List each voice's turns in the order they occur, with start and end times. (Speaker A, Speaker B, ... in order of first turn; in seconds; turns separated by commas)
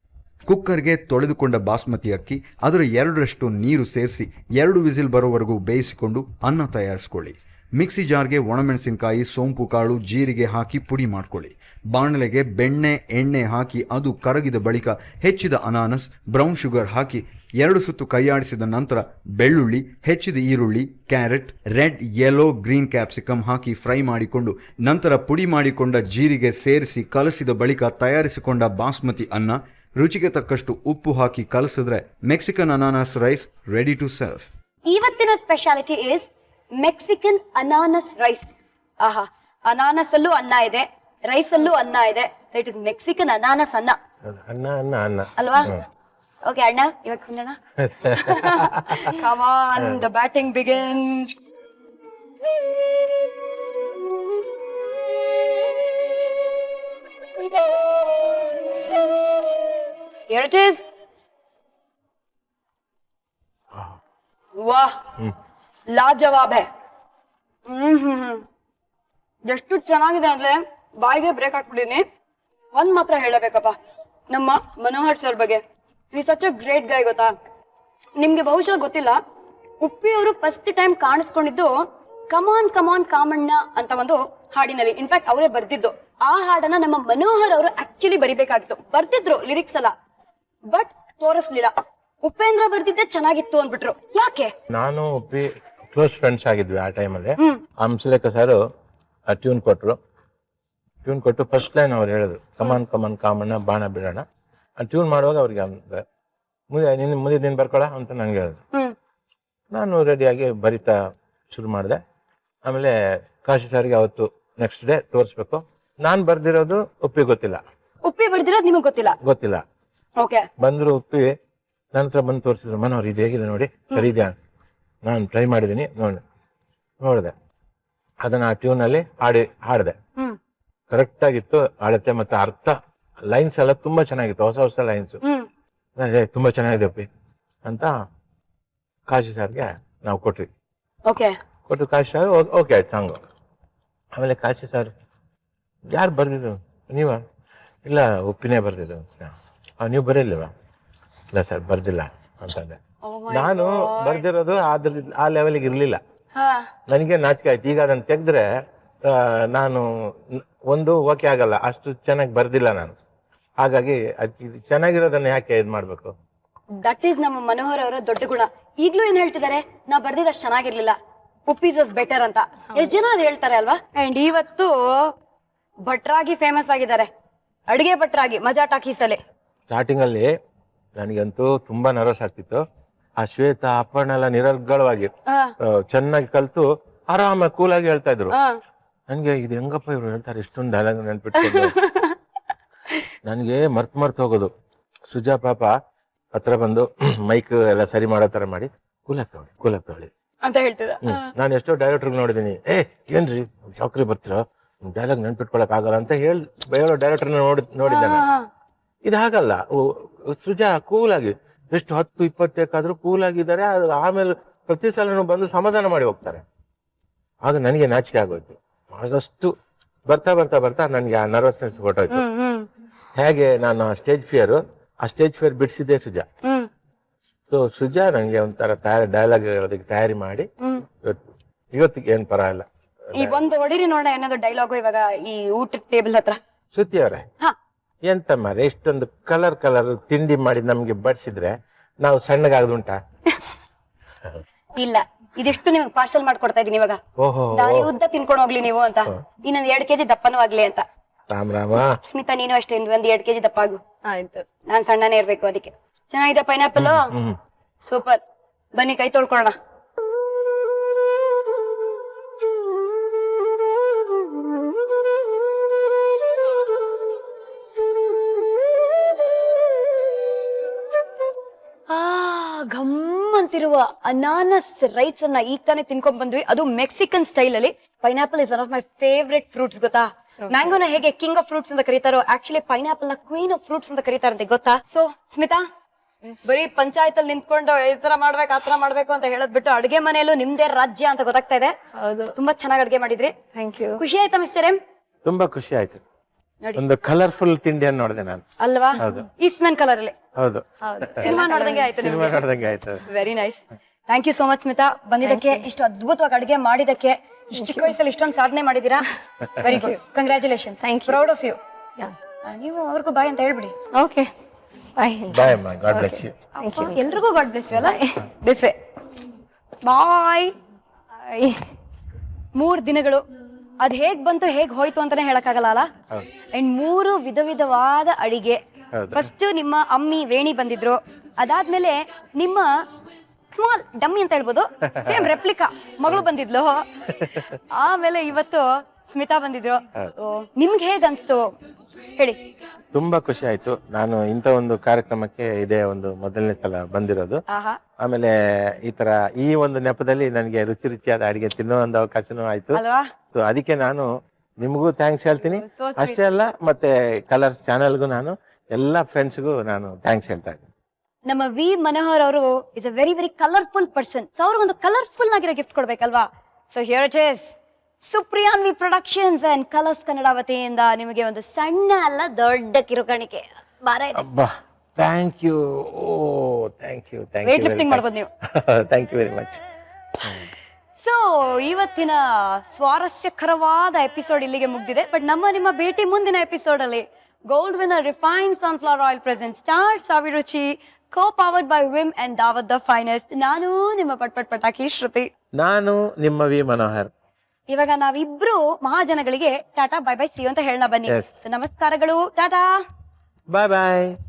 Speaker A: 0.5-34.5, Speaker B: 34.9-36.3, Speaker B: 36.8-44.0, Speaker C: 44.2-45.8, Speaker B: 45.4-45.7, Speaker B: 46.4-47.6, Speaker C: 47.8-49.0, Speaker B: 48.1-51.4, Speaker B: 60.3-60.8, Speaker B: 64.5-65.0, Speaker B: 65.9-66.7, Speaker B: 67.7-68.4, Speaker B: 69.4-72.0, Speaker B: 72.7-73.7, Speaker B: 74.3-75.6, Speaker B: 76.1-77.3, Speaker B: 78.2-79.2, Speaker B: 79.8-81.7, Speaker B: 82.3-89.9, Speaker B: 90.7-94.5, Speaker C: 94.7-98.6, Speaker C: 99.3-100.0, Speaker C: 101.0-104.2, Speaker C: 104.8-106.0, Speaker C: 106.7-108.6, Speaker C: 109.7-110.9, Speaker C: 111.5-112.0, Speaker C: 112.6-117.6, Speaker B: 118.0-119.2, Speaker C: 119.2-119.6, Speaker B: 120.2-120.5, Speaker C: 120.6-121.3, Speaker C: 121.9-124.3, Speaker C: 125.0-126.2, Speaker C: 127.0-127.3, Speaker C: 128.2-129.9, Speaker C: 130.9-135.2, Speaker C: 136.0-137.1, Speaker C: 137.6-137.9, Speaker C: 139.1-140.5, Speaker B: 141.1-141.3, Speaker C: 141.7-143.2, Speaker C: 144.1-144.9, Speaker C: 145.9-147.2, Speaker C: 147.8-150.5, Speaker C: 151.3-152.8, Speaker B: 153.0-154.2, Speaker C: 153.3-156.0, Speaker B: 156.3-156.7, Speaker C: 156.9-158.4, Speaker C: 159.1-162.9, Speaker C: 163.6-166.1, Speaker B: 166.8-170.9, Speaker B: 171.5-175.1, Speaker B: 175.8-177.1, Speaker B: 177.7-179.2, Speaker C: 179.7-180.3, Speaker C: 180.9-182.6, Speaker C: 183.2-185.1, Speaker B: 185.3-185.5, Speaker C: 185.6-188.3, Speaker B: 188.3-188.6, Speaker C: 189.1-191.8, Speaker B: 191.4-192.2, Speaker C: 193.2-194.5, Speaker C: 195.1-195.7, Speaker C: 196.3-200.1, Speaker B: 200.4-201.3, Speaker C: 201.0-208.3, Speaker B: 207.8-208.4, Speaker C: 209.0-216.4, Speaker C: 217.4-219.5, Speaker C: 220.1-222.2, Speaker B: 222.1-222.7, Speaker C: 223.2-226.2, Speaker C: 227.5-230.5, Speaker C: 231.7-233.4, Speaker B: 233.1-236.4, Speaker C: 236.7-237.2, Speaker C: 238.0-243.0, Speaker B: 244.7-247.0, Speaker C: 247.2-247.9, Speaker B: 247.5-250.8, Speaker C: 251.3-251.9, Speaker B: 252.0-257.1, Speaker C: 256.8-257.4, Speaker B: 257.8-258.2, Speaker B: 258.7-259.5, Speaker B: 271.9-285.6, Speaker B: 286.4-291.7, Speaker D: 291.9-292.3, Speaker B: 292.3-293.3, Speaker D: 293.5-294.0, Speaker B: 294.0-294.8, Speaker C: 295.2-296.0, Speaker C: 296.8-298.4, Speaker B: 298.6-300.1, Speaker C: 299.0-299.2, Speaker C: 300.4-300.6, Speaker D: 300.8-302.1, Speaker B: 301.2-302.4, Speaker C: 301.9-303.0, Speaker B: 303.1-309.0, Speaker D: 305.2-305.6, Speaker D: 307.6-307.9, Speaker B: 309.6-311.6, Speaker D: 310.8-311.2, Speaker B: 312.4-313.7, Speaker D: 313.9-314.3, Speaker D: 314.9-317.0, Speaker C: 315.3-316.4, Speaker B: 316.6-318.7, Speaker D: 317.7-318.2, Speaker B: 319.8-320.5, Speaker D: 321.3-321.6, Speaker B: 322.5-323.2, Speaker B: 323.8-325.9, Speaker B: 326.5-328.6, Speaker C: 328.9-329.2, Speaker B: 329.1-332.7, Speaker B: 333.5-336.8, Speaker C: 334.9-335.3, Speaker C: 337.2-337.5, Speaker B: 337.7-341.4, Speaker C: 342.9-347.4, Speaker B: 347.5-347.8, Speaker C: 348.0-352.8, Speaker B: 352.7-353.1, Speaker C: 353.3-354.1, Speaker C: 354.6-360.6, Speaker B: 355.5-356.2, Speaker B: 361.2-367.4, Speaker B: 368.1-374.2, Speaker C: 374.2-378.0, Speaker B: 377.4-378.3, Speaker C: 378.5-379.6, Speaker B: 381.0-395.3, Speaker C: 395.5-397.1, Speaker B: 397.7-402.8, Speaker C: 401.1-401.4, Speaker C: 403.5-404.1